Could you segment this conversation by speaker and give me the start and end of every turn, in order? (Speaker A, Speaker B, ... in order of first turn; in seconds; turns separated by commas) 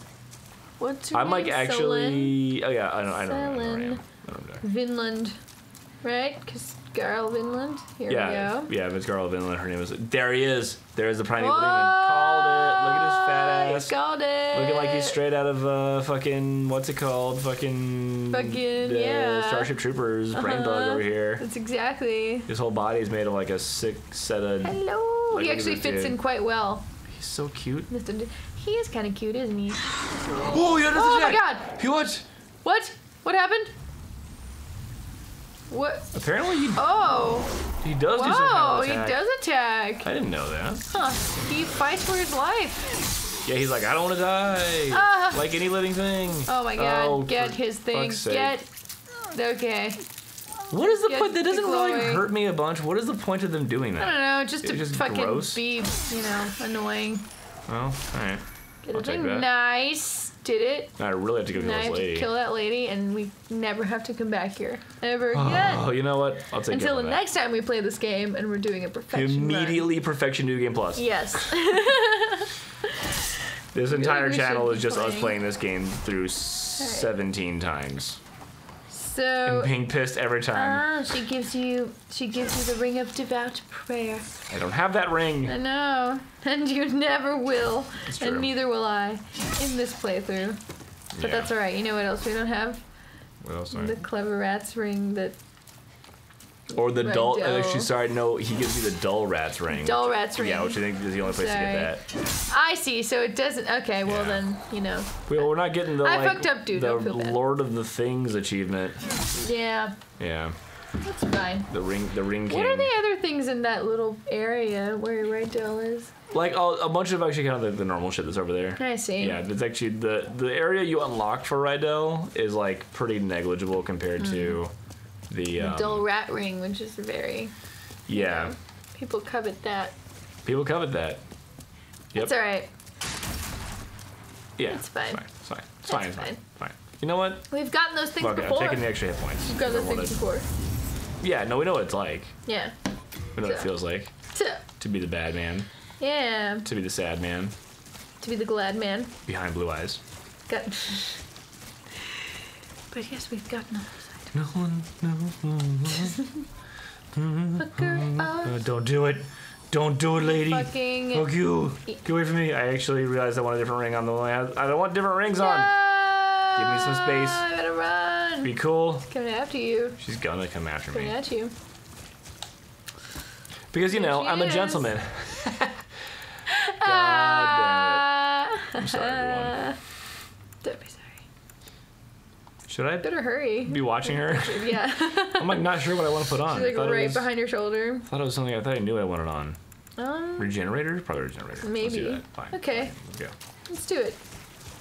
Speaker A: 0.8-2.5, Speaker B: 1.1-4.6, Speaker A: 3.2-4.0, Speaker A: 4.6-5.4, Speaker A: 6.0-8.7, Speaker B: 8.1-13.9, Speaker A: 11.4-15.2, Speaker B: 14.5-21.4, Speaker A: 18.3-19.7, Speaker A: 20.3-22.5, Speaker B: 22.4-26.2, Speaker A: 24.6-26.8, Speaker B: 27.1-27.9, Speaker A: 27.9-29.8, Speaker B: 30.3-32.2, Speaker A: 30.8-31.7, Speaker A: 32.6-33.7, Speaker A: 35.7-36.1, Speaker B: 36.1-36.8, Speaker A: 36.7-37.5, Speaker B: 37.8-39.2, Speaker A: 38.1-40.1, Speaker B: 40.0-40.8, Speaker A: 40.9-43.0, Speaker B: 43.4-48.5, Speaker A: 44.9-45.4, Speaker A: 46.5-48.6, Speaker A: 49.3-50.0, Speaker B: 50.7-55.6, Speaker A: 50.8-52.2, Speaker A: 54.0-57.2, Speaker B: 57.7-59.5, Speaker A: 58.8-60.9, Speaker B: 61.0-62.3, Speaker A: 61.5-65.9, Speaker B: 65.3-67.2, Speaker A: 66.7-69.9, Speaker B: 69.1-71.5, Speaker A: 71.0-73.1, Speaker B: 73.7-78.2, Speaker A: 73.9-75.4, Speaker A: 76.8-77.1, Speaker A: 78.9-79.8, Speaker B: 79.4-80.9, Speaker A: 80.5-84.3, Speaker B: 84.5-85.5, Speaker A: 85.4-90.6, Speaker B: 88.0-88.5, Speaker B: 91.1-91.5, Speaker A: 91.2-92.8, Speaker B: 93.4-94.0, Speaker A: 93.7-95.3, Speaker A: 96.7-97.9, Speaker B: 96.7-102.0, Speaker A: 99.7-107.4, Speaker B: 104.0-104.4, Speaker B: 105.3-109.0, Speaker A: 109.4-110.0, Speaker B: 110.2-110.5, Speaker A: 111.0-111.7, Speaker B: 111.7-112.9, Speaker A: 112.5-116.1, Speaker B: 116.3-124.7, Speaker A: 118.8-119.4, Speaker A: 124.3-124.6, Speaker B: 125.3-126.0, Speaker A: 125.5-127.5, Speaker B: 128.1-128.5, Speaker A: 128.1-129.9, Speaker B: 130.4-131.2, Speaker A: 132.1-132.7, Speaker B: 134.6-137.5, Speaker A: 134.7-135.2, Speaker A: 135.8-136.4, Speaker A: 137.5-138.9, Speaker B: 138.2-140.1, Speaker A: 139.4-140.4, Speaker B: 141.2-142.3, Speaker A: 142.4-142.7, Speaker B: 143.3-144.1, Speaker A: 143.4-143.7, Speaker A: 144.3-144.6, Speaker B: 144.8-145.7, Speaker A: 146.0-146.7, Speaker B: 146.6-147.5, Speaker A: 148.2-149.1, Speaker B: 149.2-150.0, Speaker A: 150.5-151.2, Speaker A: 152.9-154.3, Speaker B: 154.3-156.2, Speaker B: 157.1-165.7, Speaker A: 157.6-158.7, Speaker A: 160.1-161.3, Speaker A: 165.3-168.5, Speaker B: 166.5-167.5, Speaker B: 168.4-169.1, Speaker A: 169.1-170.0, Speaker B: 170.0-171.2, Speaker A: 170.9-171.5, Speaker B: 173.7-175.8, Speaker A: 173.9-174.9, Speaker A: 176.5-179.8, Speaker B: 176.8-178.2, Speaker B: 178.7-179.7, Speaker A: 180.6-181.2, Speaker B: 182.7-187.3, Speaker A: 183.0-188.1, Speaker B: 188.0-189.6, Speaker A: 190.0-190.6, Speaker B: 190.4-193.3, Speaker A: 191.6-192.9, Speaker A: 193.7-194.2